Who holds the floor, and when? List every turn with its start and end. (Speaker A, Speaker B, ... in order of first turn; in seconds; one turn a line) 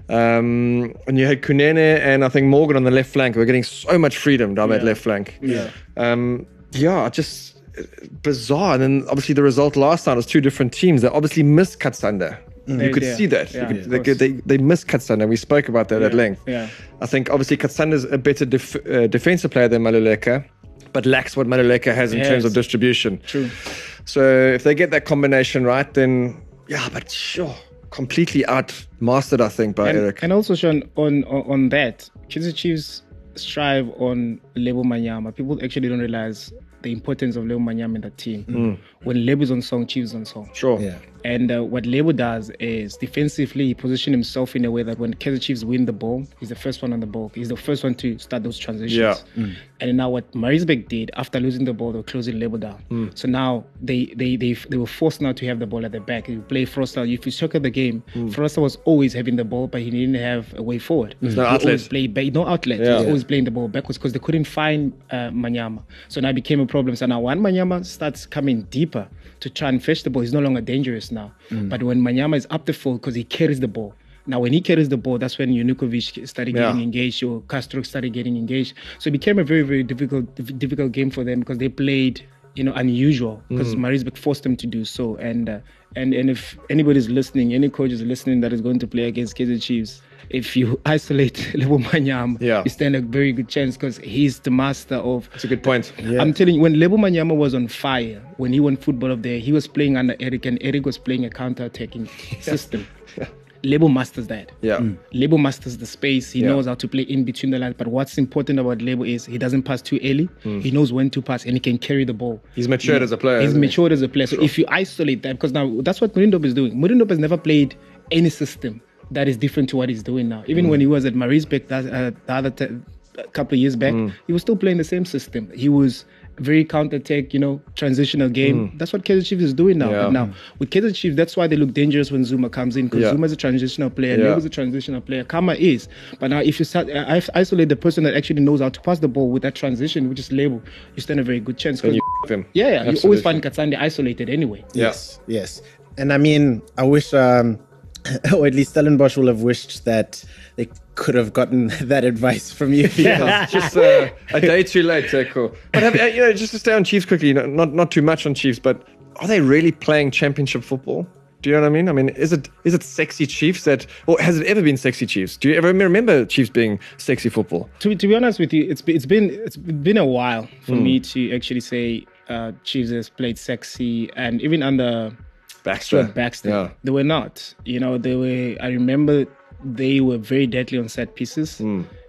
Speaker A: 0.1-16.4
Speaker B: 4.6-5.7
Speaker C: 12.7-13.0
Speaker B: 12.8-14.2
Speaker B: 15.9-16.7
Speaker A: 17.0-30.2
Speaker B: 22.1-22.6
Speaker B: 23.3-23.5
Speaker B: 29.8-40.5
Speaker A: 38.5-38.8
Speaker A: 40.5-40.9
Speaker B: 41.2-49.2
Speaker A: 48.9-49.2
Speaker B: 49.8-102.9
Speaker A: 61.3-61.9
Speaker A: 62.8-63.1
Speaker A: 76.5-76.8
Speaker A: 83.5-83.8
Speaker A: 92.4-92.7
Speaker A: 95.4-96.0
Speaker C: 96.0-96.3
Speaker B: 103.6-144.7
Speaker A: 104.6-104.9
Speaker A: 112.6-113.8
Speaker A: 123.9-124.1
Speaker A: 128.4-128.7
Speaker A: 129.8-130.2
Speaker A: 132.9-133.2
Speaker A: 134.1-134.4
Speaker A: 141.8-143.4
Speaker C: 144.7-153.7
Speaker A: 153.0-167.7
Speaker B: 153.0-153.9
Speaker B: 167.8-175.2
Speaker A: 170.7-171.0
Speaker A: 175.7-176.7
Speaker B: 175.8-181.7
Speaker A: 181.6-181.9